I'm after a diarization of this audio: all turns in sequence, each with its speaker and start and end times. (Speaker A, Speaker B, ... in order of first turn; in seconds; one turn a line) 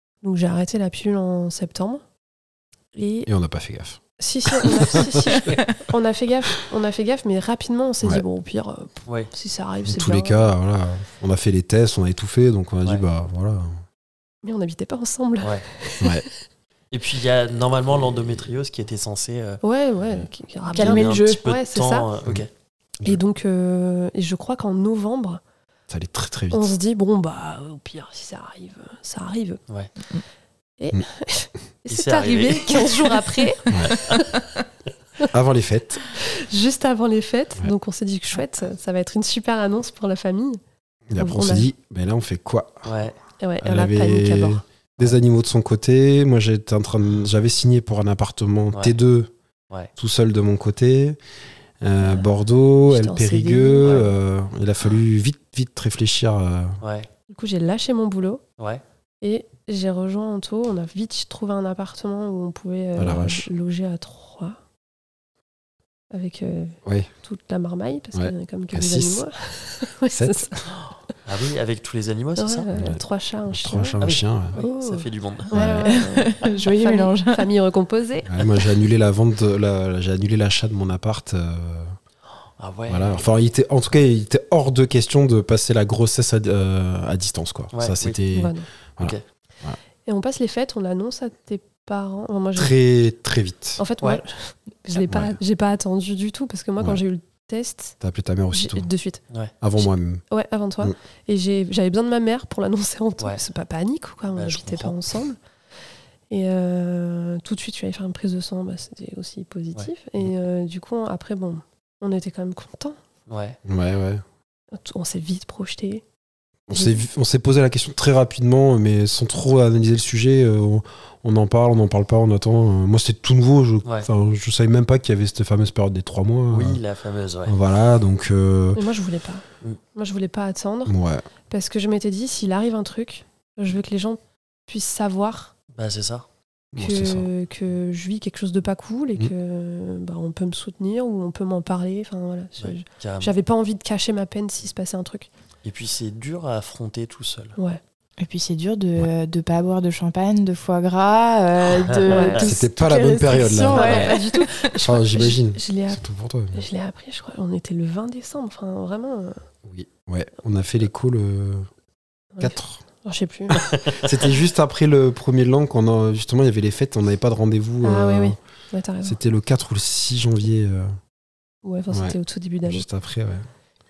Speaker A: 0.2-2.0
Speaker A: 2.9-3.3
Speaker B: 3.2-5.6
Speaker A: 4.2-10.5
Speaker C: 9.1-9.3
Speaker B: 9.8-13.8
Speaker A: 14.4-16.3
Speaker B: 16.0-16.2
Speaker C: 16.9-19.6
Speaker B: 17.9-18.5
Speaker A: 19.6-22.1
Speaker D: 20.7-21.4
Speaker C: 20.7-22.5
Speaker A: 23.0-25.4
Speaker B: 25.9-26.7
Speaker A: 26.5-29.6
Speaker A: 30.8-34.2
Speaker C: 31.9-33.2
Speaker B: 35.3-36.0
Speaker A: 36.1-40.6
Speaker B: 41.1-43.0
Speaker A: 41.2-41.7
Speaker C: 42.8-43.1
Speaker A: 43.4-44.6
Speaker B: 43.6-49.3
Speaker B: 50.0-51.2
Speaker B: 51.8-56.8
Speaker A: 52.0-52.3
Speaker A: 52.9-54.2
Speaker C: 56.8-57.1
Speaker A: 57.3-58.4
Speaker A: 59.2-64.6
Speaker B: 63.0-63.5
Speaker A: 66.1-70.7
Speaker B: 68.1-69.2
Speaker B: 70.1-70.5
Speaker C: 71.2-72.7
Speaker A: 72.3-74.0
Speaker B: 72.7-74.5
Speaker C: 74.0-76.0
Speaker A: 74.5-78.3
Speaker B: 75.5-75.9
Speaker D: 75.6-77.5
Speaker B: 78.2-81.9
Speaker C: 82.6-83.3
Speaker B: 82.9-89.8
Speaker C: 87.7-88.2
Speaker A: 88.3-88.7
Speaker A: 90.0-92.7
Speaker B: 92.5-93.8
Speaker A: 93.8-98.0
Speaker B: 94.9-95.4
Speaker B: 98.0-98.9
Speaker A: 98.5-99.2
Speaker B: 99.6-100.2
Speaker A: 99.8-105.4
Speaker C: 104.3-105.1
Speaker A: 106.3-113.0
Speaker C: 113.3-113.6
Speaker B: 113.7-114.2
Speaker A: 114.7-116.0
Speaker B: 116.7-126.8
Speaker A: 116.7-117.0
Speaker C: 126.5-127.5
Speaker B: 127.5-128.8
Speaker A: 128.7-130.9
Speaker B: 130.8-131.2
Speaker A: 131.5-135.5
Speaker C: 135.7-136.2
Speaker B: 136.7-137.3
Speaker A: 136.7-145.3
Speaker C: 142.6-143.3
Speaker C: 145.6-147.6
Speaker D: 148.2-154.7
Speaker C: 151.8-152.4
Speaker A: 152.1-152.5
Speaker B: 152.4-156.7
Speaker A: 153.7-156.0
Speaker C: 153.8-154.0
Speaker A: 156.5-159.4
Speaker B: 159.6-161.7
Speaker A: 162.3-163.8
Speaker B: 162.4-162.8
Speaker C: 163.5-164.1
Speaker B: 163.9-168.4
Speaker A: 167.8-169.2
Speaker B: 169.0-170.9
Speaker A: 171.6-172.8
Speaker B: 171.9-173.5